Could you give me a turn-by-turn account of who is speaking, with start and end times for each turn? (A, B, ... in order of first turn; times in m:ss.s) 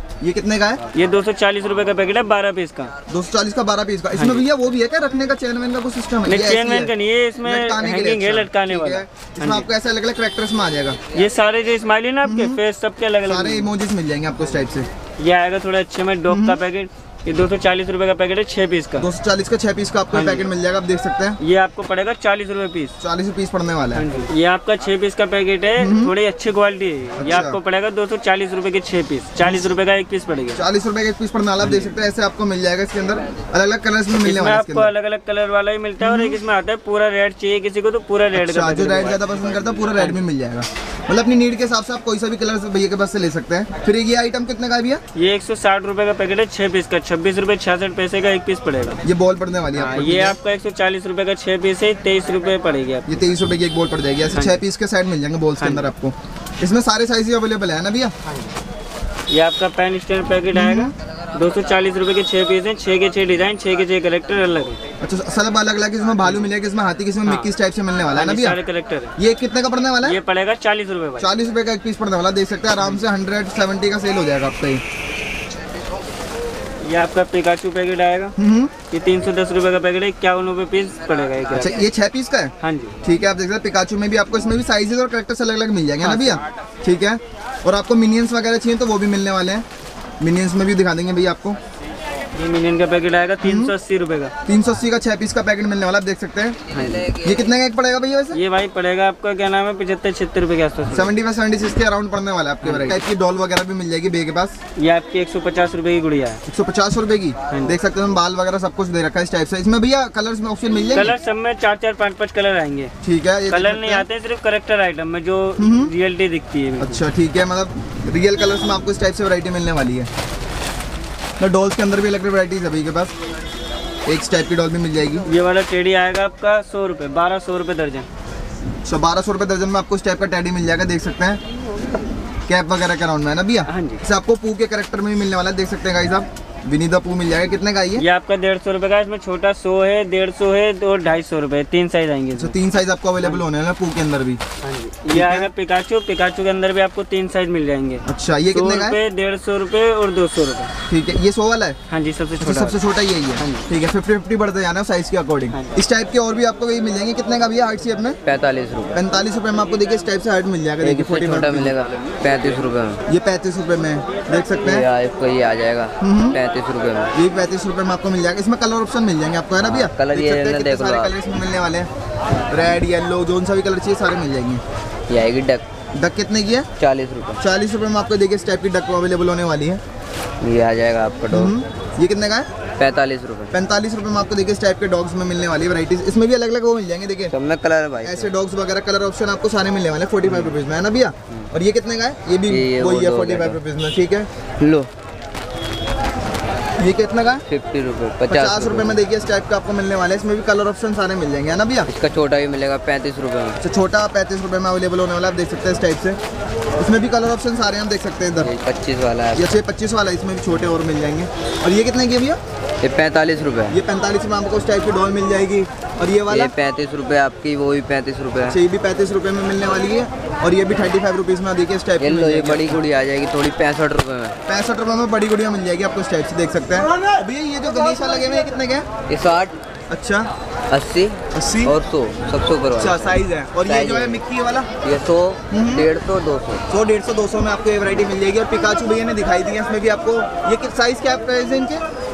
0:00.2-0:00.9 A
0:00.9-0:02.9 B
0:03.1-0:11.0 A
0:04.2-0:04.4 B
0:06.3-0:09.6 B
0:11.1-0:13.7 B
0:12.2-0:12.6 A
0:13.2-0:14.9 A
0:15.2-0:19.1 B
0:16.3-0:16.6 A
0:19.0-0:21.4 A
0:20.1-0:20.5 B
0:21.4-0:22.9 B
0:23.0-0:24.0 A
0:23.9-0:30.6 B
0:25.8-0:26.1 A
0:27.2-0:27.6 A
0:29.4-0:29.8 A
0:30.5-0:34.9 A
0:31.6-0:32.0 B
0:34.2-0:40.2 B
0:36.0-0:36.4 A
0:38.3-0:45.0 A
0:45.1-0:49.0 B
0:49.0-0:50.4 A
0:49.8-0:53.1 B
0:53.1-0:58.1 A
0:54.3-0:54.6 B
0:55.6-0:55.9 B
0:59.3-1:04.8 B
1:00.5-1:00.9 A
1:05.0-1:08.6 A
1:08.1-1:09.1 B
1:09.2-1:10.2 A
1:10.0-1:11.3 B
1:11.2-1:14.8 A
1:16.8-1:18.3 B
1:18.4-1:18.7 A
1:18.9-1:21.9 B
1:21.5-1:29.6 A
1:22.6-1:23.0 B
1:26.0-1:26.4 B
1:30.2-1:31.6 A
1:32.3-1:34.3 B
1:33.4-1:33.7 A
1:34.4-1:36.6 A
1:36.7-1:37.0 B
1:36.8-1:37.4 C
1:37.1-1:38.4 A
1:38.3-1:41.1 B
1:40.9-1:44.6 A
1:42.6-1:43.0 B
1:44.8-1:46.4 B
1:46.5-1:51.1 A
1:47.5-1:47.8 B
1:50.9-1:52.9 B
1:53.0-1:54.0 A
1:53.5-1:57.0 B
1:55.6-1:55.9 A
1:56.8-2:00.1 A
2:01.4-2:03.1 A
2:04.0-2:05.2 A
2:05.2-2:08.1 B
2:08.8-2:11.4 A
2:12.5-2:18.0 A
2:13.7-2:14.0 B
2:18.0-2:22.5 B
2:22.3-2:24.4 A
2:24.6-2:30.7 B
2:25.1-2:25.5 A
2:28.0-2:29.0 A
2:30.9-2:31.8 A
2:31.9-2:32.8 B
2:32.4-2:38.2 A
2:33.4-2:33.7 B
2:38.2-2:39.0 C
2:38.9-2:41.8 A
2:40.8-2:43.0 C
2:43.1-2:44.8 A
2:44.6-2:47.1 C
2:46.0-2:46.4 A
2:47.1-2:51.9 A
2:49.6-2:51.1 C
2:52.5-2:54.6 A
2:55.1-2:55.6 C
2:55.9-2:56.7 A
2:56.8-2:57.4 C
2:57.4-2:59.8 A
3:00.4-3:01.5 C
3:01.3-3:02.5 A
3:02.8-3:03.6 C
3:03.5-3:07.3 A
3:07.3-3:08.3 C
3:08.0-3:14.3 A
3:10.2-3:10.5 C
3:12.4-3:13.6 C
3:14.6-3:14.9 C
3:16.8-3:17.4 A
3:17.5-3:19.0 C
3:18.3-3:21.9 A
3:21.8-3:23.6 C
3:23.6-3:26.2 A
3:26.8-3:28.5 A
3:28.4-3:29.5 C
3:29.3-3:32.4 A
3:32.8-3:33.8 C
3:33.7-3:36.5 A
3:36.3-3:38.6 C
3:38.5-3:42.8 A
3:42.0-3:44.4 C
3:44.5-3:48.9 A
3:49.1-3:49.6 C
3:49.9-3:50.3 A
3:50.7-3:54.2 C
3:51.3-3:51.7 A
3:52.8-3:54.7 A
3:54.8-3:56.6 C
3:55.5-3:55.9 A
3:56.7-4:01.8 A